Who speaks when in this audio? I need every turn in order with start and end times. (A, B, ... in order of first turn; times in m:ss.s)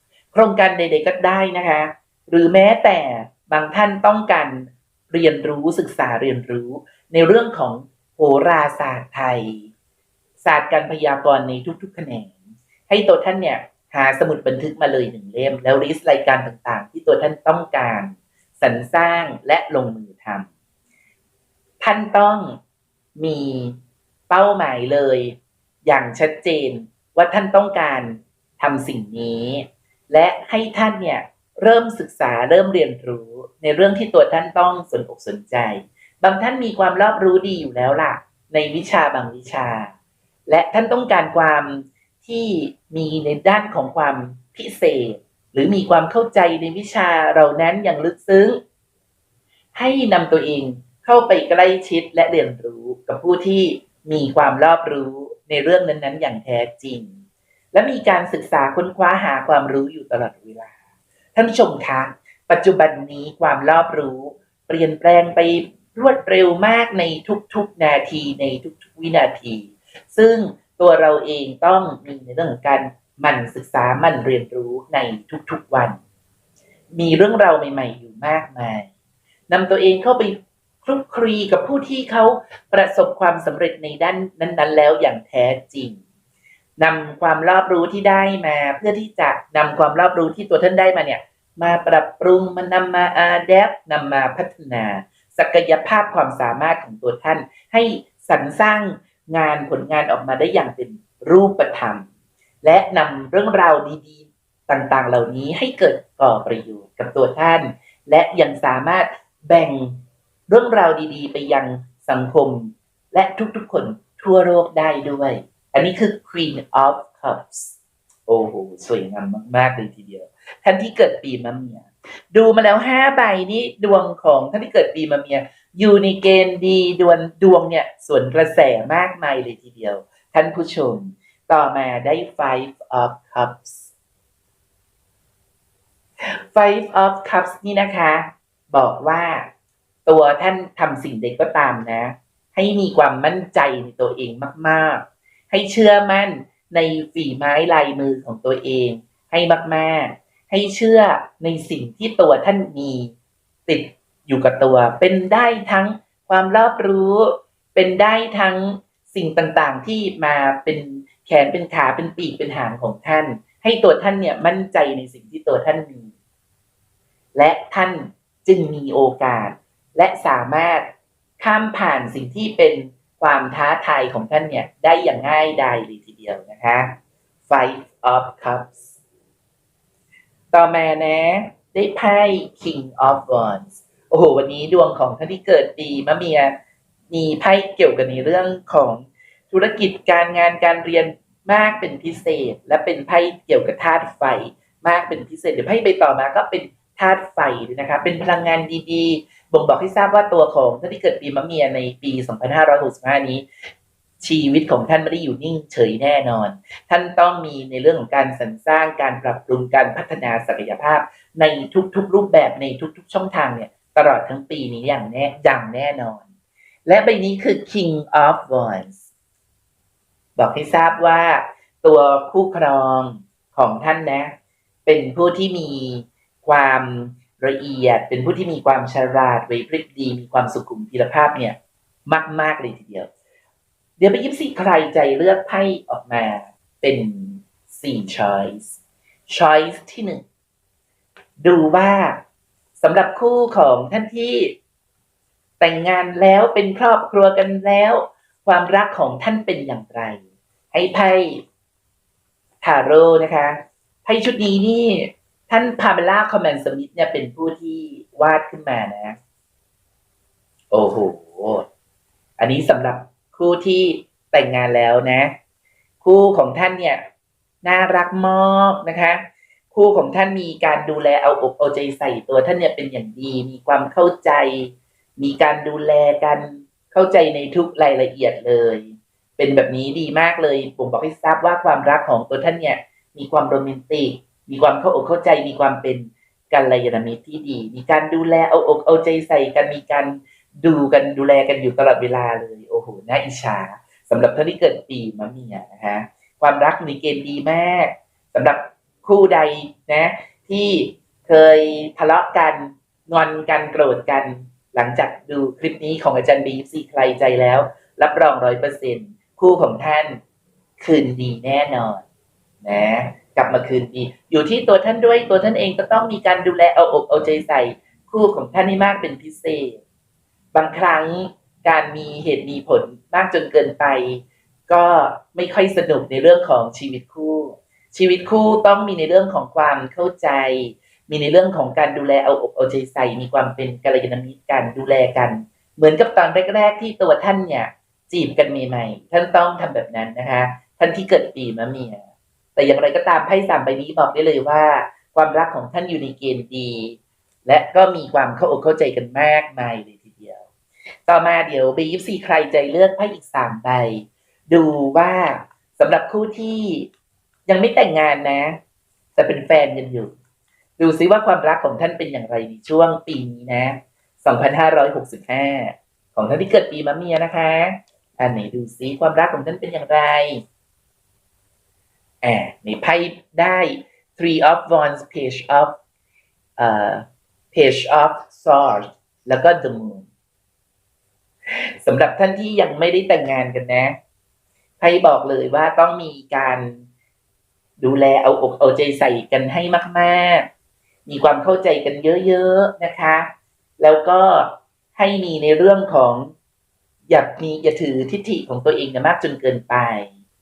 0:00.3-0:09.7 A
0:10.4-0:12.4 A
0:12.9-0:20.5 A
0:21.8-0:22.6 A
0:23.2-0:23.8 A
0:24.3-0:39.9 A
0:40.5-0:48.6 A
0:49.8-0:57.1 A
0:57.7-1:00.7 A
1:01.4-1:16.0 A
1:16.9-1:18.9 A
1:19.5-1:26.0 A
1:26.8-1:42.1 A
1:42.6-2:13.9 A
2:16.3-2:19.5 A
2:20.1-2:33.1 A
2:33.7-2:46.1 A
2:47.4-2:57.0 A
2:57.5-2:59.0 A
3:00.5-3:06.5 A
3:07.1-3:23.5 A
3:24.2-3:36.2 A
3:36.9-3:39.1 A
3:40.4-3:44.3 A
3:44.9-3:53.1 A
3:54.0-3:58.8 A
3:59.3-4:00.2 A
4:01.4-4:02.2 A
4:02.8-4:04.6 A
4:05.6-4:10.2 A
4:10.7-4:11.4 A
4:12.6-4:19.2 A
4:20.7-4:21.7 A
4:22.4-4:25.3 A
4:26.0-4:27.0 A
4:27.6-5:10.2 A
5:10.8-5:12.0 A
5:12.6-5:19.8 A
5:20.5-5:42.0 A
5:42.6-5:50.5 A
5:51.1-5:56.9 A
5:57.5-5:58.6 A
5:59.2-6:00.1 A
6:00.8-6:10.4 A
6:12.2-6:15.8 A
6:16.6-6:20.1 A
6:21.8-6:24.0 A
6:24.8-6:26.9 A
6:27.8-6:30.5 A
6:31.1-6:33.3 A
6:33.8-6:36.3 A
6:37.1-6:40.1 A